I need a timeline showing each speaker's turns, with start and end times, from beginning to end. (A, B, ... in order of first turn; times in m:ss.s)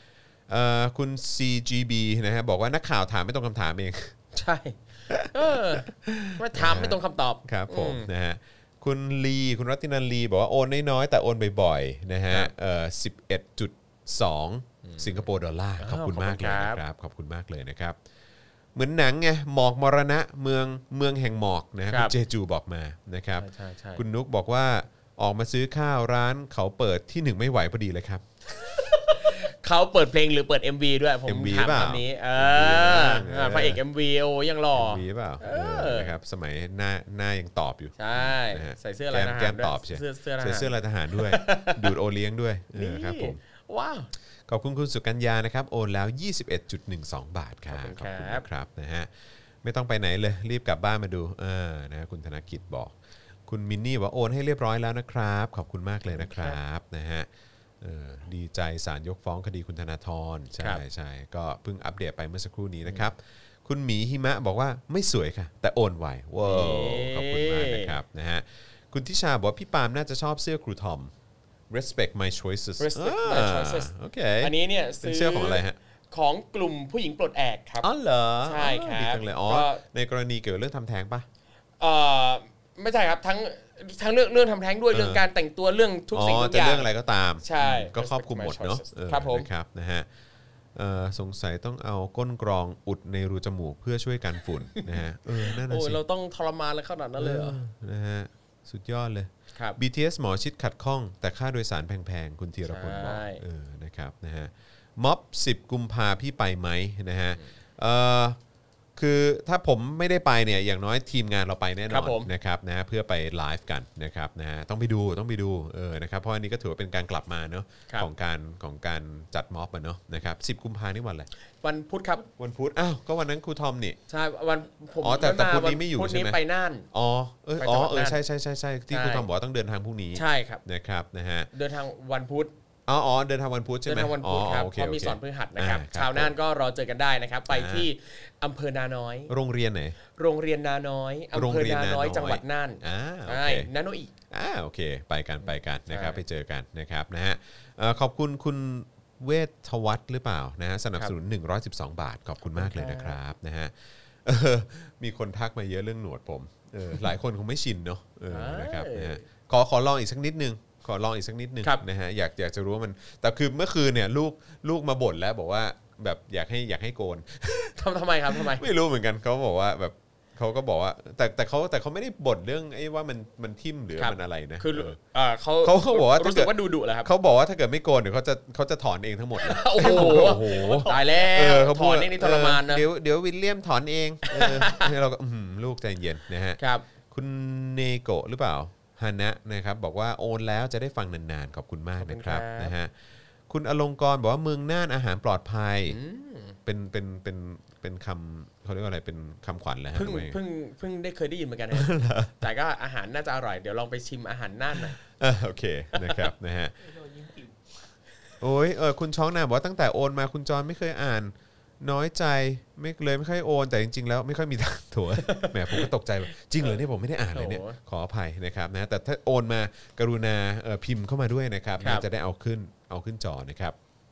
0:00.5-0:04.2 A
0:04.3-0:08.1 B
0:05.1-0:18.0 A
0:14.8-0:15.3 B
0:15.8-0:16.8 B
0:18.8-0:28.2 A
0:21.9-0:22.2 B
0:23.4-0:24.0 B
0:28.6-0:36.1 B
0:31.2-0:33.8 A
0:34.7-0:43.4 A
0:38.0-0:41.9 B
0:42.8-0:44.1 B
0:44.5-0:49.1 A
0:47.7-0:48.4 B
0:49.6-0:52.9 A
0:53.5-0:57.3 A
0:56.1-0:56.6 B
0:57.8-1:11.1 A
1:06.4-1:08.0 B
1:11.7-1:15.8 A
1:12.8-1:13.9 B
1:14.4-1:17.9 B
1:17.8-1:21.3 A
1:18.4-1:19.8 B
1:21.8-1:26.9 B
1:24.9-1:25.2 A
1:26.1-1:30.1 A
1:27.4-1:29.5 B
1:30.8-1:36.0 A
1:34.8-1:37.6 B
1:37.2-1:48.4 A
1:42.7-1:43.4 B
1:49.0-2:01.3 A
1:51.9-1:52.3 B
2:01.6-2:02.3 B
2:02.4-2:04.0 A
2:04.1-2:06.9 B
2:05.0-2:06.4 A
2:06.9-2:11.5 A
2:07.6-2:08.2 B
2:08.9-2:09.3 B
2:10.2-2:10.6 B
2:11.5-2:12.5 B
2:12.9-2:16.3 A
2:13.9-2:19.3 B
2:17.5-2:17.9 A
2:19.3-2:20.0 A
2:20.2-2:24.1 B
2:21.3-2:23.7 A
2:24.3-2:33.7 A
2:25.4-2:26.2 B
2:32.6-2:33.2 B
2:34.2-2:47.8 A
2:38.3-2:39.2 B
2:47.8-2:48.7 B
2:48.3-2:55.0 A
2:54.0-2:57.1 B
2:55.6-3:06.6 A
2:59.4-3:02.9 B
2:59.8-3:01.3 C
3:04.3-3:04.9 B
3:06.6-3:06.8 B
3:07.1-3:12.9 A
3:12.0-3:12.7 B
3:13.5-3:16.0 A
3:15.9-3:16.6 B
3:16.6-3:20.4 A
3:19.9-3:25.0 B
3:21.7-3:22.4 A
3:25.0-3:26.7 A
3:25.9-3:26.2 B
3:26.8-3:27.7 C
3:28.4-3:43.8 A
3:35.2-3:35.9 B
3:37.3-3:37.8 B
3:41.8-3:42.1 B